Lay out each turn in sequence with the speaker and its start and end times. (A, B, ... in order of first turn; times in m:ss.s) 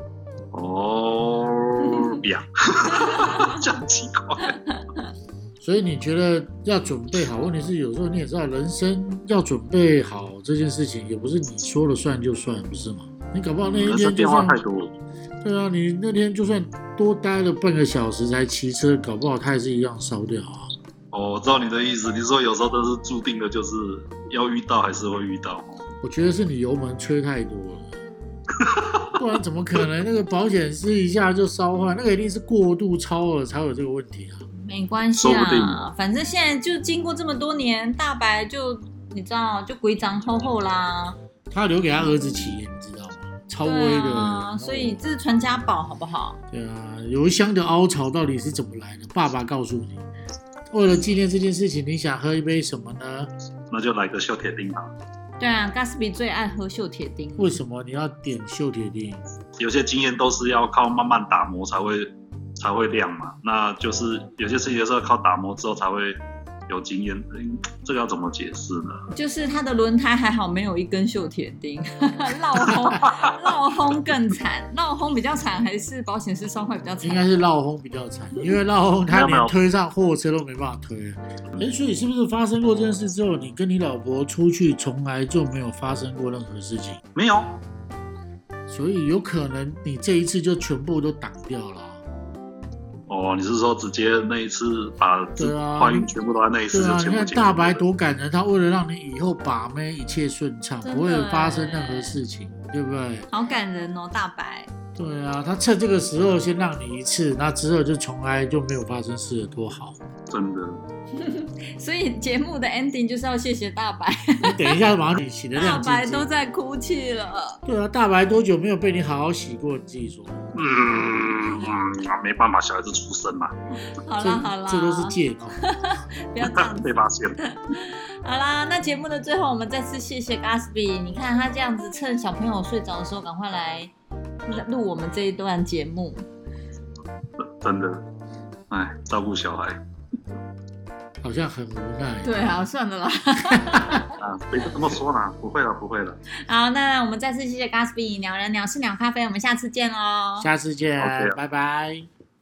0:00.5-0:04.6 A
0:01.9-0:02.2 B
0:03.1-0:03.6 B
0:05.6-0:14.6 C
0:13.6-0:14.9 A
0:15.4-0:20.7 C
0:21.1-0:25.8 A
0:26.0-0:27.9 C
0:28.6-0:29.1 A
0:29.2-0:34.4 C
0:34.6-0:41.2 B
0:35.2-0:35.8 A
0:41.5-0:45.0 C
0:43.6-0:46.4 B
0:46.5-0:50.1 C
0:50.7-0:53.3 C
0:53.7-0:54.9 A
0:55.4-0:57.5 B
0:57.4-0:59.2 C
0:59.6-1:09.1 A
1:09.1-1:17.2 B
1:12.8-1:13.3 A
1:17.0-1:27.0 C
1:19.1-1:19.5 A
1:27.2-1:27.6 A
1:28.7-1:32.0 C
1:33.1-1:37.8 A
1:35.4-1:36.1 C
1:36.7-1:43.3 C
1:40.8-1:42.2 B
1:43.3-1:44.7 B
1:45.0-1:50.0 C
1:50.3-1:50.8 A
1:51.2-1:54.8 B
1:54.4-1:56.3 C
1:55.6-1:57.6 B
1:57.7-2:00.5 C
2:00.5-2:03.8 A
2:03.9-2:13.9 B
2:04.2-2:05.6 C
2:06.4-2:07.4 A
2:14.5-2:16.2 B
2:17.4-2:18.0 A
2:18.7-2:19.8 A
2:21.2-2:22.6 C
2:22.2-2:24.2 B
2:24.2-2:26.2 A
2:26.4-2:30.5 B
2:30.4-2:32.1 C
2:31.0-2:31.4 A